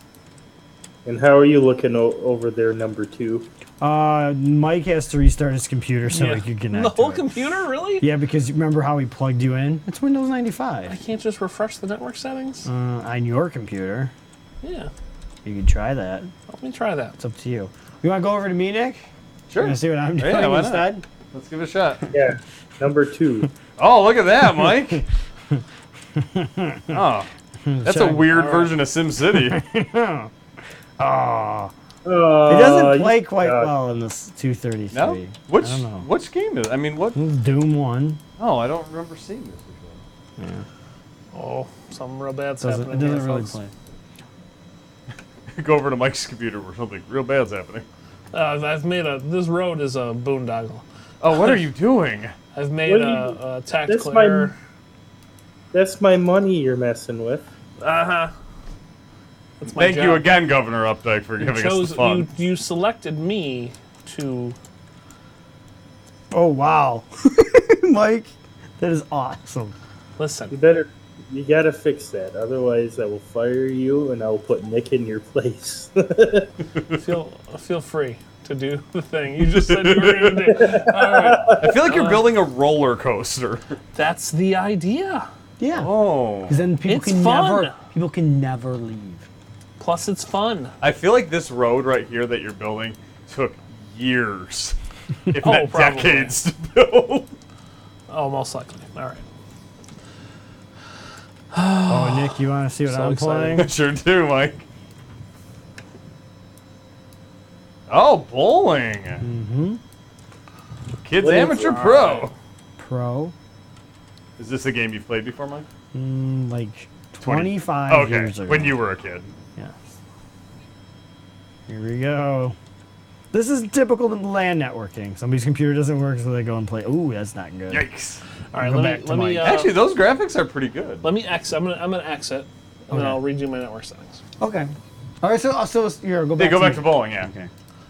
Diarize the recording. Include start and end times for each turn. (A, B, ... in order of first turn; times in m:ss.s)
0:01.0-0:03.5 A
0:03.8-0:07.4 B
0:06.1-0:08.1 C
0:08.0-0:11.0 B
0:10.9-0:12.7 C
0:12.7-0:14.1 B
0:14.6-0:14.9 C
0:15.4-0:16.3 B
0:16.5-0:17.2 C
0:17.2-0:19.1 B
0:19.5-0:22.1 D
0:19.6-0:21.0 B
0:22.1-0:23.5 A
0:23.8-0:25.0 D
0:24.6-0:25.0 B
0:26.2-0:27.0 B
0:26.9-0:27.3 D
0:27.6-0:28.6 B
0:27.8-0:29.6 D
0:28.3-0:28.8 C
0:29.3-0:30.3 B
0:31.0-0:31.7 B
0:32.0-0:33.7 A
0:32.5-0:36.1 B
0:34.9-0:37.2 D
0:37.2-0:38.2 B
0:38.4-0:40.0 D
0:40.4-0:40.6 B
0:41.3-0:43.6 C
0:42.6-0:43.7 B
0:45.6-0:47.8 D
0:48.3-0:50.8 C
0:51.2-0:52.3 D
0:52.5-0:54.6 C
0:52.9-0:53.4 A
0:53.9-0:54.5 A
0:55.7-0:57.4 A
0:57.8-0:58.3 C
0:59.6-1:00.3 C
0:59.7-1:02.3 D
1:01.4-1:04.6 C
1:06.3-1:09.8 B
1:10.2-1:10.6 C
1:10.5-1:16.5 A
1:16.8-1:17.0 D
1:17.0-1:22.2 C
1:19.4-1:20.7 D
1:20.6-1:21.7 A
1:21.6-1:23.8 D
1:23.9-1:25.3 C
1:25.6-1:25.9 B
1:25.7-1:26.6 D
1:26.5-1:29.3 B
1:26.9-1:27.8 C
1:29.8-1:30.7 C
1:30.8-1:34.8 D
1:35.3-1:37.3 D
1:35.4-1:36.4 C
1:38.1-1:39.2 C
1:41.5-1:43.6 C
1:41.9-1:43.7 B
1:43.4-1:44.6 D
1:47.9-1:49.2 D
1:49.2-1:49.8 B
1:51.0-1:52.3 D
1:51.2-1:52.0 A
1:51.5-1:52.3 C
1:52.8-1:53.3 B
1:54.4-1:55.7 D
1:55.9-1:58.8 B
1:57.2-1:59.3 D
2:01.7-2:02.6 B
2:03.3-2:07.8 B
2:07.7-2:08.2 D
2:08.5-2:09.8 C
2:08.6-2:09.6 B
2:09.4-2:11.0 D
2:11.0-2:14.2 C
2:12.9-2:13.2 B
2:14.4-2:17.5 B
2:16.4-2:17.3 D